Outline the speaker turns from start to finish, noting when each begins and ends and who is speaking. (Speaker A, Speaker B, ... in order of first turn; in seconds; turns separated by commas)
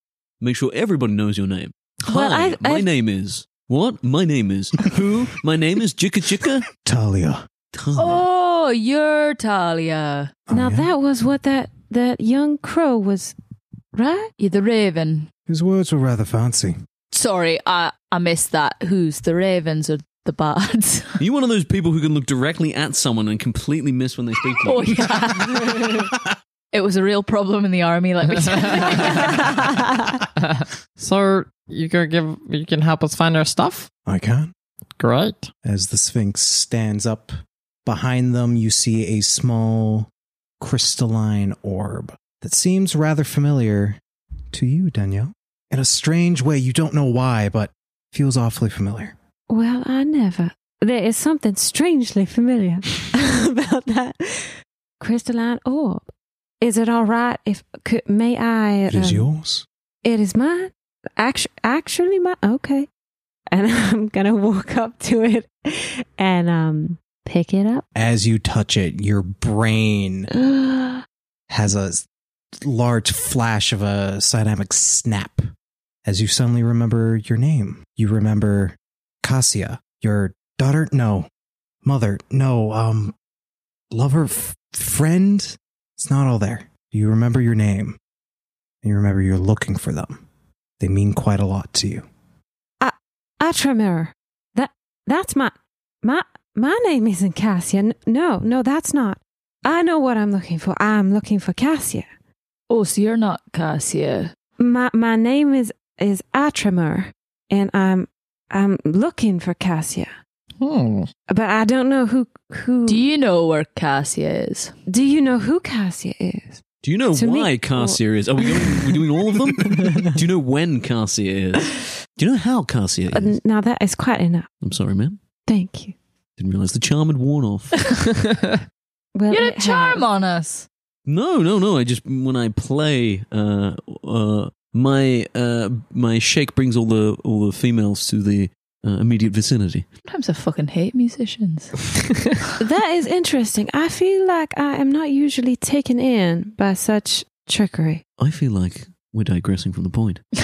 Speaker A: 0.4-6.7, Speaker B: 2.1-2.9, Speaker C: 6.7-7.5, Speaker A: 7.7-8.2, Speaker D: 7.9-10.3, Speaker C: 10.5-10.9, Speaker B: 10.5-13.3, Speaker B: 13.9-14.3, Speaker D: 14.4-15.3, Speaker C: 15.5-16.8, Speaker D: 17.1-21.2, Speaker A: 21.2-25.1, Speaker D: 24.6-26.1, Speaker D: 26.7-29.6, Speaker E: 31.0-33.9, Speaker C: 34.0-34.5, Speaker E: 35.0-35.5, Speaker C: 35.6-40.1, Speaker C: 40.6-44.0, Speaker C: 44.5-49.1, Speaker B: 49.5-56.0, Speaker B: 56.6-59.2, Speaker C: 58.9-59.6, Speaker B: 60.0-62.9, Speaker B: 63.5-67.8, Speaker C: 67.9-70.3, Speaker B: 70.3-71.0, Speaker C: 71.5-72.0, Speaker C: 72.6-75.5, Speaker C: 76.0-81.3, Speaker C: 81.8-83.1, Speaker C: 83.9-88.0, Speaker C: 88.8-90.2, Speaker C: 90.8-92.0, Speaker B: 92.8-102.1, Speaker D: 102.7-104.3, Speaker B: 104.6-110.1, Speaker E: 110.6-111.1, Speaker B: 111.3-113.0, Speaker D: 112.9-114.7, Speaker B: 114.9-116.6, Speaker A: 116.8-123.4, Speaker B: 117.1-120.1, Speaker B: 123.1-124.5, Speaker A: 124.6-125.2, Speaker B: 125.5-125.9, Speaker A: 126.4-127.8, Speaker B: 129.1-130.0, Speaker D: 129.3-130.7, Speaker A: 131.1-139.8, Speaker D: 140.1-141.7, Speaker B: 142.6-148.0, Speaker A: 148.2-150.2